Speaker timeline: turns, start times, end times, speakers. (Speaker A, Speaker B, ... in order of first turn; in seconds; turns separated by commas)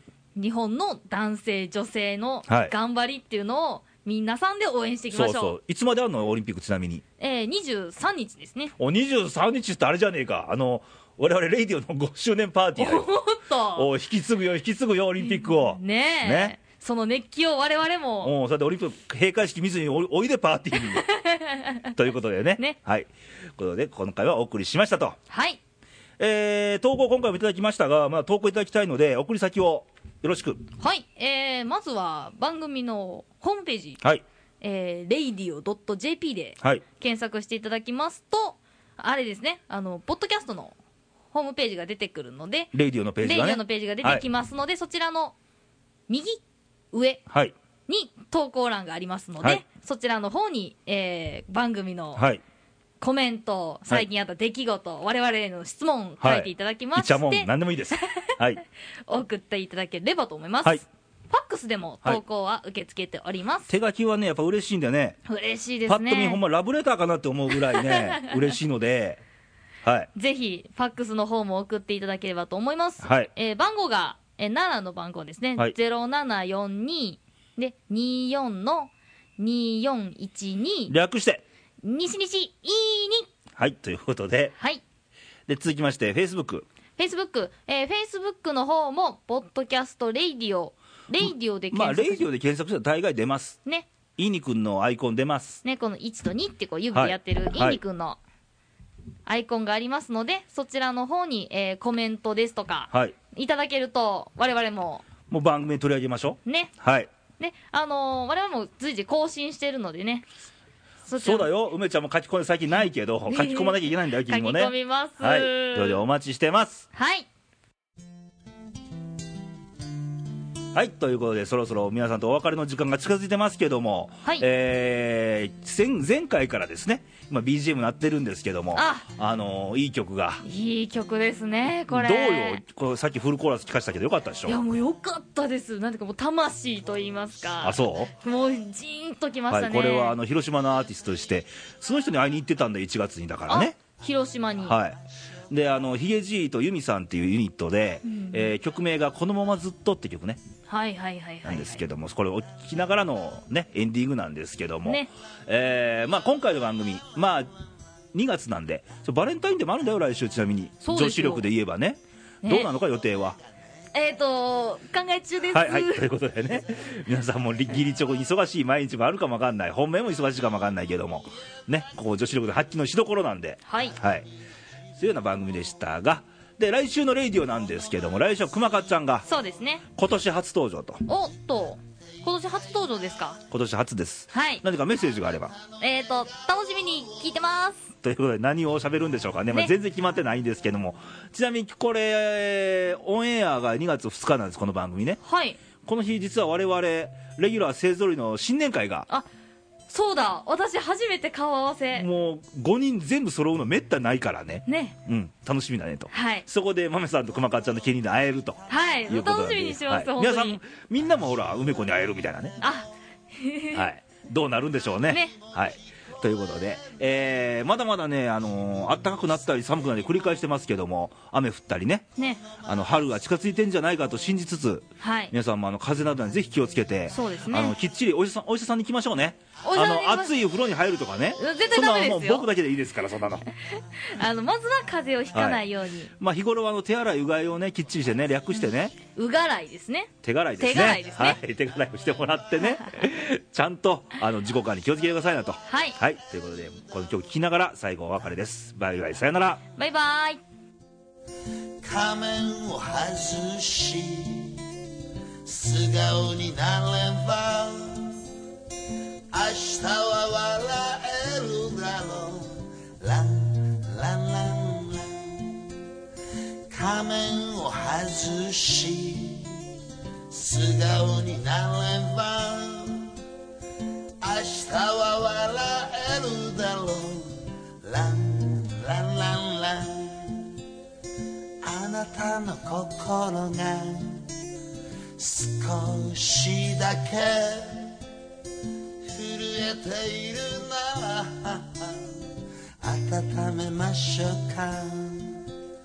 Speaker A: 0.3-5.5, Speaker B: 2.5-2.7, Speaker B: 5.1-7.0, Speaker A: 7.2-8.7, Speaker B: 8.8-13.1, Speaker A: 12.8-13.9, Speaker B: 13.8-16.5, Speaker A: 15.2-18.3, Speaker B: 18.2-21.1, Speaker A: 20.9-21.9, Speaker B: 21.9-25.2, Speaker A: 25.3-25.6, Speaker B: 26.2-30.6, Speaker A: 30.8-34.0, Speaker A: 34.6-40.8, Speaker A: 41.3-45.3, Speaker B: 42.7-44.2, Speaker A: 46.1-47.2, Speaker B: 47.3-47.5, Speaker A: 47.9-52.2, Speaker B: 52.1-52.4, Speaker A: 53.0-58.3, Speaker B: 56.2-58.6, Speaker A: 59.1-63.7, Speaker B: 63.7-65.2, Speaker A: 65.2-66.4, Speaker B: 65.8-69.2, Speaker A: 67.7-68.3, Speaker B: 69.8-70.1, Speaker A: 70.1-80.9, Speaker B: 73.0-73.3, Speaker B: 80.9-81.4, Speaker A: 81.8-83.3, Speaker B: 83.5-84.5, Speaker A: 84.6-84.8, Speaker B: 85.5-86.7, Speaker A: 87.0-92.2, Speaker B: 91.2-93.6, Speaker B: 94.2-95.6, Speaker A: 95.6-98.2, Speaker B: 96.9-97.8, Speaker A: 99.2-105.0, Speaker B: 105.3-107.1, Speaker A: 106.4-106.7, Speaker A: 107.4-110.3, Speaker A: 111.0-111.5, Speaker B: 111.2-116.8, Speaker A: 113.3-116.0, Speaker A: 116.9-117.3, Speaker B: 120.7-130.4, Speaker A: 128.7-129.1, Speaker A: 130.4-132.6, Speaker B: 131.9-134.6, Speaker A: 134.4-140.2, Speaker B: 137.6-138.1, Speaker B: 139.5-143.7, Speaker A: 143.5-144.8, Speaker B: 144.6-145.0, Speaker B: 145.5-150.4, Speaker A: 148.0-148.5, Speaker A: 150.7-151.8, Speaker B: 151.4-157.5, Speaker B: 158.1-163.4, Speaker A: 160.8-161.5, Speaker A: 162.4-162.7, Speaker A: 163.9-166.0, Speaker B: 165.5-174.3, Speaker A: 173.7-174.0, Speaker B: 174.9-179.2, Speaker A: 179.2-179.8, Speaker B: 179.9-181.0, Speaker A: 181.1-183.4, Speaker B: 183.5-185.6, Speaker A: 184.3-184.6, Speaker A: 185.8-187.9, Speaker B: 188.0-195.2, Speaker A: 195.2-195.6, Speaker B: 195.8-199.1, Speaker A: 199.9-202.1, Speaker B: 201.9-212.6, Speaker A: 204.7-204.9, Speaker A: 206.1-206.4, Speaker A: 208.7-210.6, Speaker A: 212.6-213.9, Speaker B: 213.7-222.1, Speaker A: 215.1-215.3, Speaker A: 222.2-222.4, Speaker B: 222.6-233.4, Speaker A: 225.0-225.3, Speaker A: 227.1-227.7, Speaker A: 229.6-230.3, Speaker A: 231.4-232.4, Speaker A: 233.5-236.1, Speaker B: 235.3-235.6, Speaker B: 236.2-238.9, Speaker A: 239.1-241.4, Speaker B: 240.2-249.6, Speaker A: 245.7-246.0, Speaker A: 249.8-250.4, Speaker C: 251.8-254.6, Speaker C: 255.4-258.2, Speaker C: 259.3-265.7, Speaker C: 266.7-269.6, Speaker C: 270.3-273.1, Speaker C: 274.2-280.5, Speaker C: 281.6-284.3, Speaker C: 285.2-287.9, Speaker C: 289.0-292.3, Speaker C: 292.8-295.4